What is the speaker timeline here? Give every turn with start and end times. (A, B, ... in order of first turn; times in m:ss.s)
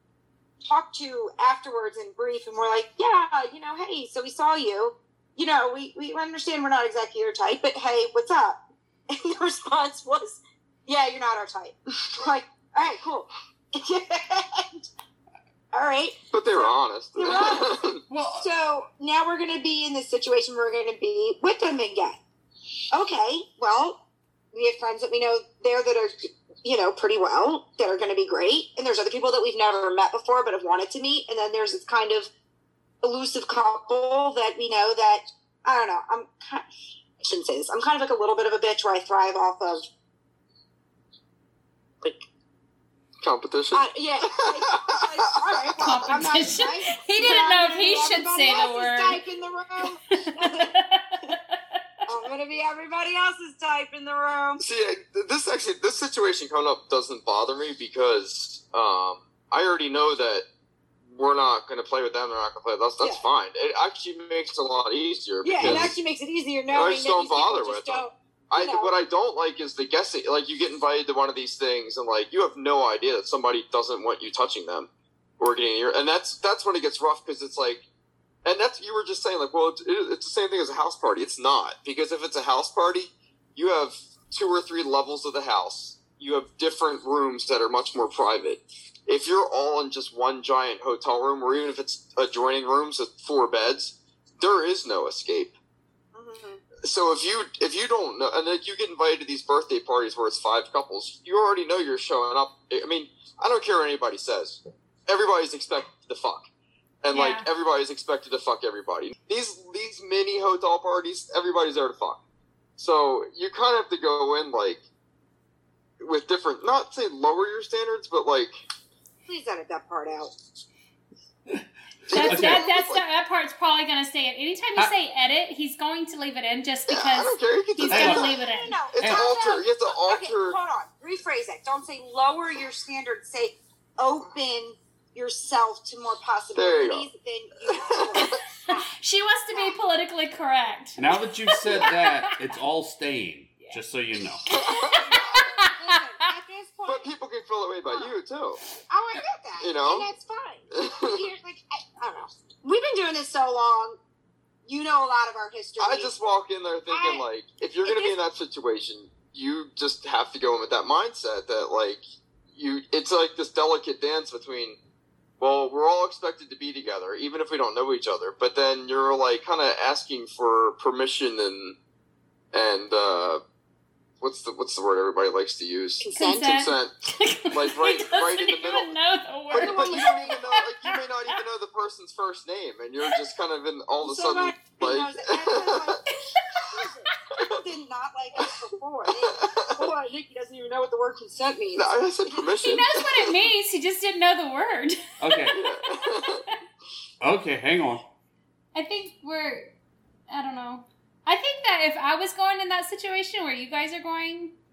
0:00.6-0:14.9 A
0:15.7-0:22.2 A
0:16.3-0:18.0 B
0:18.1-0:18.5 C
0:22.9-0:24.0 A
0:24.5-0:32.3 A
0:33.0-0:36.7 A
0:37.2-0:39.8 A
0:43.2-0:46.0 B
0:43.7-0:50.7 A
0:45.8-0:49.2 D
0:50.1-0:51.6 D
0:52.0-0:54.6 A
0:54.6-1:00.4 B
1:01.1-1:06.0 B
1:05.4-1:08.9 A
1:05.6-1:05.9 C
1:06.7-1:17.8 B
1:18.4-1:35.5 B
1:36.1-1:36.6 A
1:36.8-1:46.5 B
1:47.0-1:52.2 B
1:47.1-1:47.5 D
1:52.8-1:54.8 B
1:56.0-1:58.5 B
1:59.3-2:00.3 A
2:01.5-2:02.6 C
2:02.1-2:03.0 B
2:02.1-2:08.8 D
2:06.9-2:08.3 B
2:07.9-2:08.3 C
2:07.9-2:18.8 A
2:08.9-2:10.6 B
2:09.0-2:09.3 C
2:16.5-2:17.1 B
2:17.7-2:18.4 B
2:18.2-2:22.4 D
2:21.0-2:24.4 C
2:24.5-2:25.4 B
2:24.5-2:25.7 D
2:24.5-2:27.1 A
2:26.8-2:28.6 B
2:28.9-2:34.0 A
2:29.6-2:30.1 B
2:30.7-2:31.2 B
2:34.6-2:36.1 A
2:35.8-2:42.0 B
2:36.9-2:37.2 A
2:37.8-2:38.2 A
2:42.5-2:44.8 B
2:45.4-2:51.8 B
2:52.5-2:53.4 B
2:54.2-2:56.9 B
2:56.0-2:56.6 A
2:56.1-3:01.4 D
2:57.5-2:58.9 B
2:59.5-3:06.0 B
2:59.5-3:00.4 A
3:04.0-3:12.5 A
3:09.4-3:09.7 B
3:11.7-3:13.3 B
3:12.6-3:16.4 D
3:15.2-3:15.6 C
3:15.5-3:16.4 B
3:17.2-3:18.0 C
3:18.7-3:19.7 D
3:20.3-3:24.5 D